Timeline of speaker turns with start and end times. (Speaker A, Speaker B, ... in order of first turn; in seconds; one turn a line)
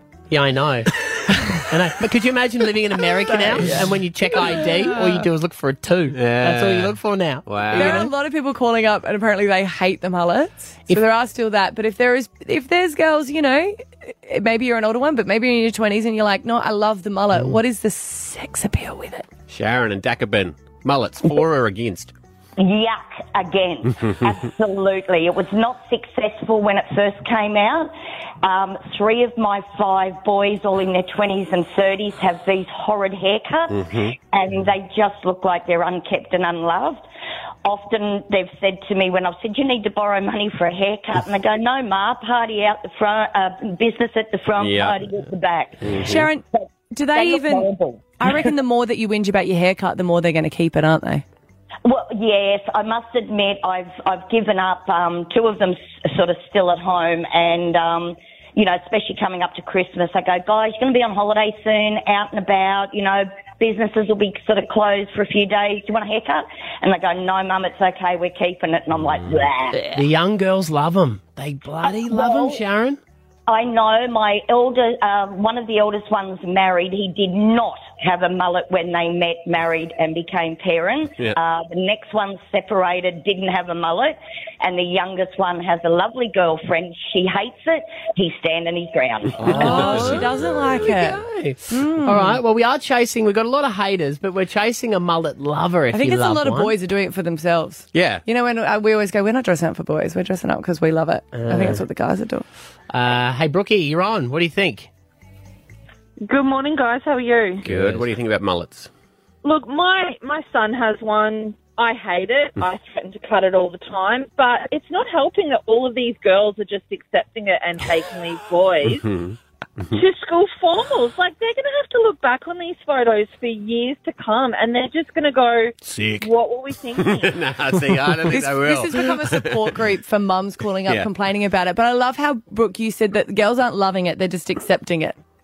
Speaker A: 0.3-0.9
Speaker A: 1.6-8.1
Speaker B: 3.3-5.2
Speaker C: 6.1-8.1
Speaker B: 7.7-19.3
Speaker C: 19.5-22.1
Speaker D: 22.6-27.9
Speaker D: 28.4-37.0
Speaker C: 33.7-34.2
Speaker D: 37.6-48.0
Speaker C: 44.6-45.1
Speaker C: 45.8-46.3
Speaker B: 46.0-51.2
Speaker D: 51.9-69.9
Speaker A: 69.9-73.0
Speaker D: 73.5-89.6
Speaker A: 89.4-96.7
Speaker C: 89.4-90.8
Speaker B: 89.5-92.4
Speaker B: 95.9-102.5
Speaker C: 97.9-98.2
Speaker A: 101.3-101.8
Speaker A: 102.9-104.9
Speaker E: 106.3-107.6
Speaker C: 107.6-108.9
Speaker A: 107.7-108.1
Speaker E: 109.4-119.1
Speaker C: 118.9-119.4
Speaker E: 119.9-127.5
Speaker C: 125.9-126.3
Speaker C: 127.0-129.8
Speaker B: 128.3-135.2